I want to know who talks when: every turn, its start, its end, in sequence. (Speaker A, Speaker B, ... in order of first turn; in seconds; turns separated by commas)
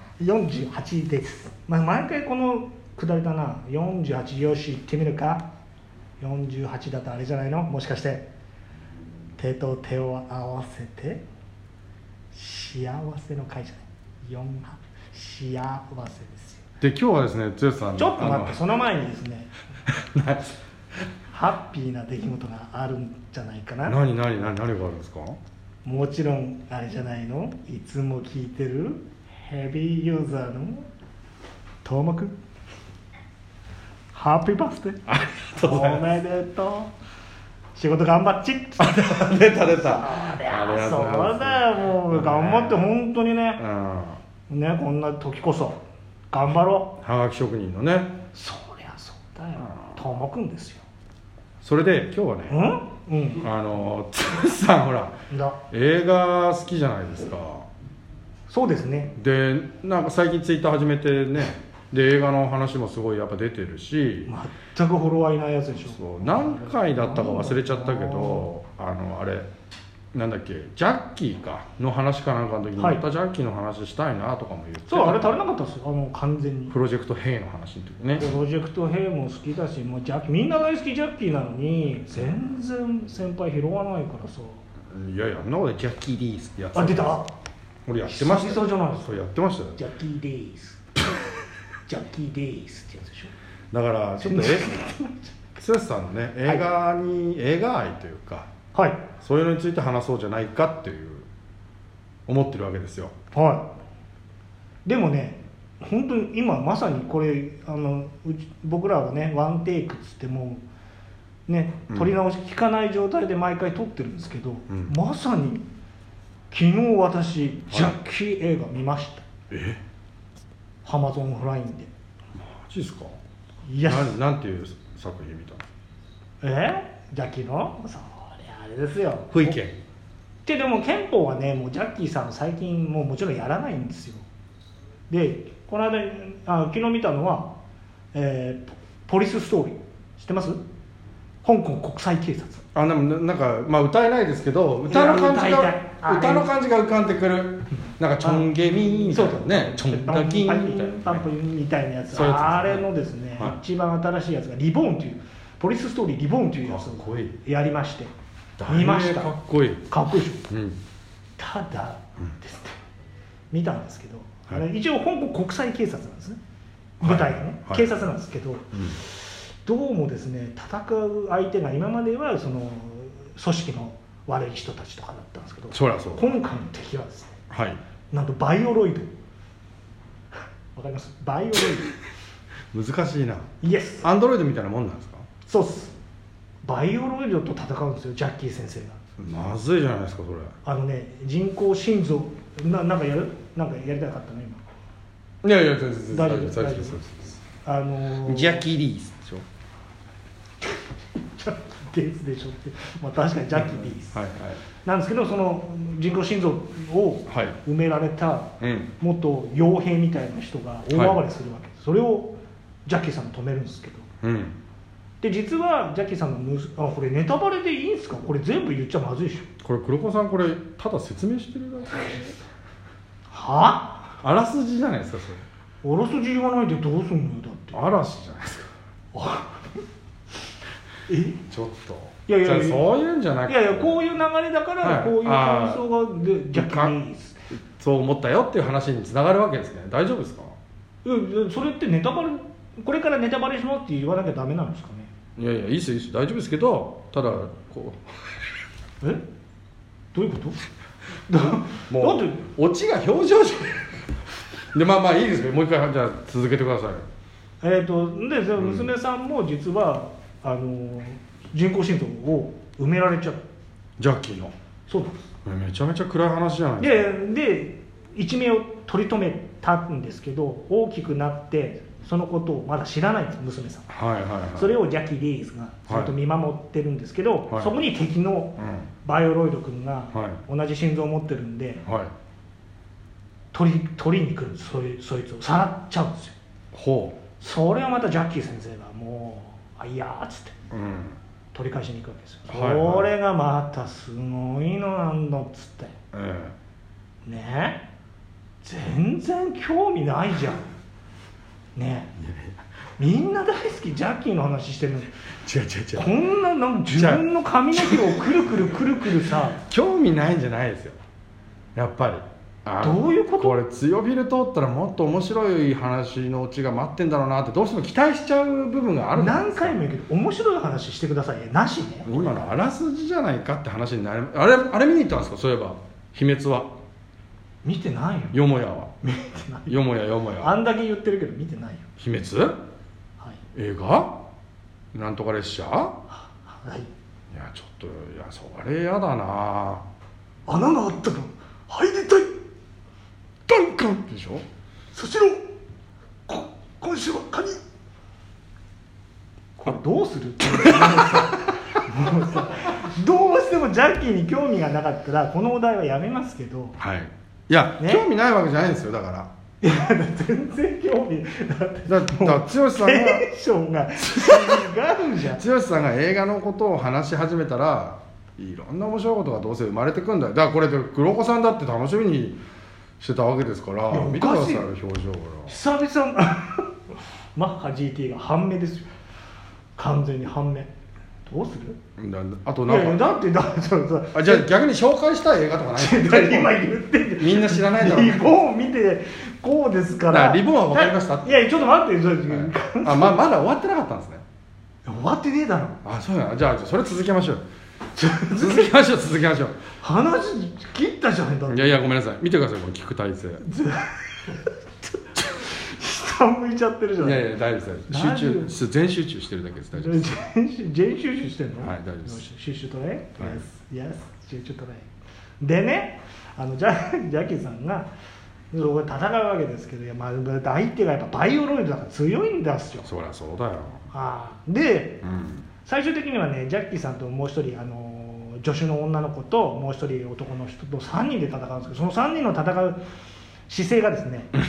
Speaker A: 0.2-5.5, Speaker A: 6.2-8.3, Speaker A: 9.4-11.2, Speaker A: 12.3-16.6, Speaker B: 16.8-18.6, Speaker A: 17.9-19.5, Speaker B: 19.9-20.6, Speaker A: 21.3-24.0, Speaker B: 23.9-25.4, Speaker A: 25.8-30.9, Speaker A: 31.8-32.3, Speaker A: 34.1-36.9, Speaker B: 35.1-36.0, Speaker A: 37.7-43.6, Speaker B: 38.8-42.9, Speaker B: 43.6-44.2, Speaker A: 44.5-45.8, Speaker A: 46.3-46.9, Speaker B: 47.0-48.2, Speaker A: 48.3-50.8, Speaker B: 51.6-52.6, Speaker A: 52.5-53.5, Speaker B: 53.4-55.2, Speaker A: 55.3-55.6, Speaker B: 55.7-57.7, Speaker A: 58.5-59.1, Speaker B: 59.1-64.3, Speaker A: 64.3-68.5, Speaker B: 65.9-69.5, Speaker B: 70.1-75.4, Speaker A: 72.8-73.0, Speaker A: 74.9-76.8, Speaker B: 76.7-78.2, Speaker A: 78.2-84.6, Speaker B: 84.9-87.2, Speaker A: 86.7-87.3, Speaker B: 87.9-89.8, Speaker A: 88.0-89.2, Speaker A: 89.8-91.0, Speaker A: 91.9-93.3, Speaker B: 93.7-94.8, Speaker A: 94.2-95.3, Speaker B: 95.5-98.5, Speaker A: 98.7-99.0, Speaker B: 99.2-101.3, Speaker B: 102.3-103.1, Speaker A: 103.3-103.7, Speaker A: 104.8-110.6, Speaker A: 111.5-115.7, Speaker A: 116.5-119.2, Speaker B: 117.7-118.0, Speaker B: 119.5-119.8, Speaker A: 120.8-121.9, Speaker B: 122.4-123.1, Speaker A: 123.7-124.2, Speaker B: 123.8-125.7, Speaker A: 126.4-129.6, Speaker B: 129.3-129.8, Speaker A: 130.4-134.2, Speaker A: 135.1-137.6, Speaker A: 138.1-140.6, Speaker A: 141.4-142.6, Speaker B: 142.7-151.2, Speaker A: 144.9-146.5, Speaker A: 148.2-148.5, Speaker A: 149.1-158.1, Speaker B: 152.1-152.8, Speaker B: 156.7-157.4, Speaker B: 158.6-159.9, Speaker A: 158.7-159.3, Speaker A: 159.9-160.5, Speaker B: 160.5-160.8, Speaker A: 161.4-162.8, Speaker A: 163.5-166.4, Speaker B: 167.0-167.9, Speaker A: 167.0-177.3, Speaker B: 168.7-169.0, Speaker B: 175.7-176.3, Speaker B: 177.5-177.8, Speaker A: 178.1-179.1, Speaker A: 180.7-181.9, Speaker B: 182.7-183.5, Speaker A: 183.6-184.1, Speaker B: 184.0-185.3, Speaker A: 185.4-185.9, Speaker A: 186.7-189.0, Speaker B: 189.2-190.5, Speaker A: 190.6-194.6, Speaker B: 195.4-197.4, Speaker A: 196.1-197.0, Speaker A: 197.6-198.7, Speaker B: 198.2-199.4, Speaker A: 200.6-204.2, Speaker B: 203.6-204.6, Speaker A: 204.8-214.1, Speaker B: 207.3-207.6, Speaker B: 208.6-208.9, Speaker B: 210.9-211.2, Speaker B: 214.2-214.6, Speaker A: 215.2-219.5, Speaker B: 219.6-222.3, Speaker A: 223.3-224.2, Speaker B: 224.2-225.4, Speaker A: 225.8-227.8, Speaker B: 227.7-228.7, Speaker A: 229.1-229.8, Speaker A: 231.1-231.4, Speaker B: 231.5-233.9, Speaker A: 232.3-232.9, Speaker A: 233.5-237.4, Speaker B: 234.8-235.8, Speaker B: 236.5-236.9, Speaker B: 237.6-240.5, Speaker A: 241.0-245.1, Speaker B: 245.4-248.0, Speaker A: 249.0-249.3, Speaker A: 250.1-250.6, Speaker A: 251.3-252.4, Speaker B: 251.7-254.0, Speaker B: 254.7-257.1, Speaker A: 257.6-263.4, Speaker B: 258.6-258.9, Speaker B: 264.0-264.5, Speaker A: 264.9-265.2, Speaker B: 265.4-267.1, Speaker A: 266.8-273.9, Speaker B: 273.9-274.7, Speaker A: 274.6-281.8, Speaker B: 278.6-278.9, Speaker B: 280.1-280.4, Speaker B: 281.8-282.1, Speaker A: 283.5-286.3, Speaker B: 286.7-287.2, Speaker A: 287.4-290.6, Speaker B: 290.7-291.2, Speaker A: 291.5-295.9, Speaker B: 292.5-293.1, Speaker B: 296.1-296.5, Speaker A: 297.2-297.8, Speaker A: 298.6-300.6, Speaker A: 301.8-302.1, Speaker B: 302.2-302.6, Speaker A: 303.0-305.1, Speaker B: 305.4-306.1, Speaker A: 305.9-309.6, Speaker B: 307.0-308.2, Speaker B: 309.6-311.0, Speaker B: 311.7-319.8, Speaker A: 312.8-313.6, Speaker A: 319.1-322.6, Speaker B: 322.1-326.7, Speaker A: 327.6-328.4, Speaker B: 328.3-328.9, Speaker A: 329.0-329.8, Speaker B: 329.7-330.5, Speaker A: 330.4-331.8, Speaker B: 332.0-332.6, Speaker B: 333.5-334.2, Speaker B: 334.9-336.0, Speaker A: 336.1-336.9, Speaker B: 337.3-339.8, Speaker A: 340.5-342.4, Speaker A: 343.5-343.8, Speaker B: 343.8-344.4, Speaker A: 344.9-345.5, Speaker A: 346.3-347.6, Speaker A: 349.6-356.8, Speaker B: 356.8-359.3, Speaker A: 357.8-358.1, Speaker A: 359.6-365.4, Speaker B: 361.9-363.3, Speaker B: 364.0-364.7, Speaker B: 365.3-372.4, Speaker B: 373.0-375.5, Speaker A: 373.9-374.7, Speaker A: 375.5-376.7, Speaker A: 377.3-378.9, Speaker A: 379.8-380.7, Speaker A: 381.2-381.8, Speaker B: 382.0-383.1, Speaker A: 382.6-384.5, Speaker B: 384.1-388.3, Speaker A: 385.7-393.2, Speaker B: 390.1-391.5, Speaker B: 392.3-394.2, Speaker A: 394.8-395.8, Speaker B: 395.8-397.4, Speaker A: 397.9-398.7, Speaker B: 398.3-399.6, Speaker A: 399.8-401.9, Speaker B: 401.5-403.4, Speaker A: 403.4-404.5, Speaker A: 405.1-407.3, Speaker B: 407.0-410.1, Speaker A: 407.9-408.5, Speaker A: 409.7-414.9, Speaker B: 411.6-412.2, Speaker A: 415.4-417.9, Speaker A: 418.5-422.9, Speaker B: 422.8-423.8, Speaker A: 423.9-425.0, Speaker B: 425.0-425.4, Speaker A: 425.6-432.8, Speaker A: 433.5-434.3